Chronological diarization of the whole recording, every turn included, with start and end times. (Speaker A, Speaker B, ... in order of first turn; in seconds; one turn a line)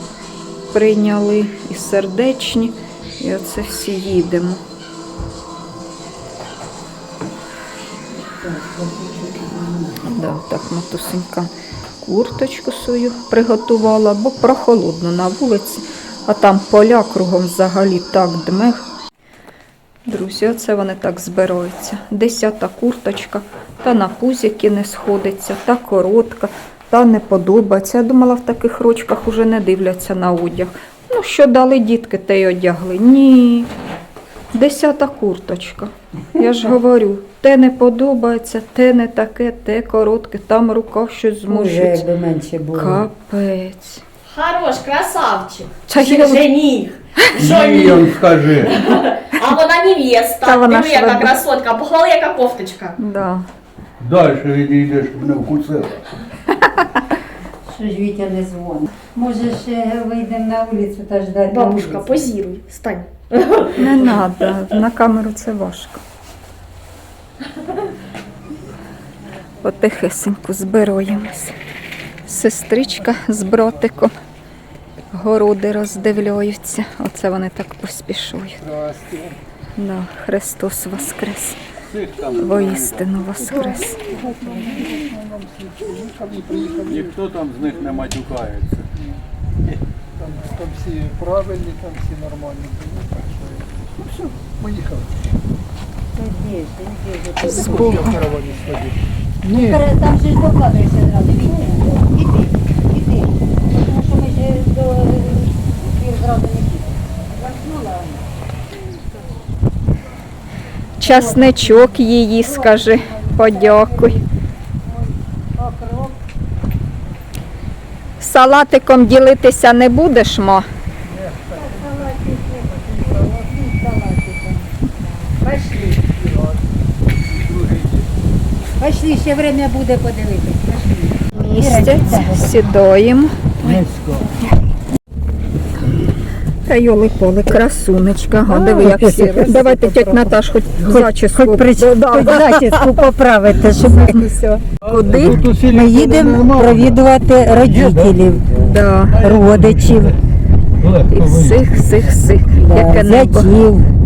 Speaker A: 0.7-4.6
Speaker B: 8.4-10.0
Speaker A: 10.0-11.5
Speaker A: 12.0-18.8
Speaker A: 20.1-33.7
Speaker A: 34.5-42.0
Speaker B: 41.5-43.1
Speaker A: 42.7-44.0
Speaker C: 44.3-48.1
Speaker A: 45.9-46.5
Speaker D: 47.3-48.9
Speaker C: 48.6-53.0
Speaker A: 50.4-51.4
Speaker A: 53.0-53.5
Speaker D: 54.0-56.2
Speaker B: 57.7-62.3
Speaker C: 61.5-64.2
Speaker A: 63.7-66.0
Speaker A: 69.6-71.5
Speaker A: 72.3-74.1
Speaker A: 75.1-78.6
Speaker E: 78.6-79.4
Speaker A: 79.8-81.6
Speaker D: 81.9-83.2
Speaker A: 82.4-84.0
Speaker E: 83.5-87.1
Speaker D: 86.8-88.9
Speaker E: 90.2-95.2
Speaker B: 96.2-98.3
Speaker A: 97.4-98.2
Speaker E: 97.5-99.8
Speaker B: 99.5-108.3
Speaker A: 111.0-114.2
Speaker B: 111.0-114.2
Speaker B: 114.8-116.2
Speaker A: 118.2-120.7
Speaker E: 121.3-121.7
Speaker B: 121.5-124.7
Speaker B: 125.4-126.1
Speaker B: 128.8-132.6
Speaker A: 131.3-133.5
Speaker D: 133.6-134.3
Speaker A: 136.7-142.9
Speaker B: 138.8-140.1
Speaker B: 140.8-144.6
Speaker D: 144.8-150.2
Speaker A: 144.9-145.4
Speaker B: 145.3-148.5
Speaker A: 148.6-149.2
Speaker B: 149.2-150.2
Speaker D: 150.8-152.0
Speaker A: 151.1-153.5
Speaker B: 152.6-153.9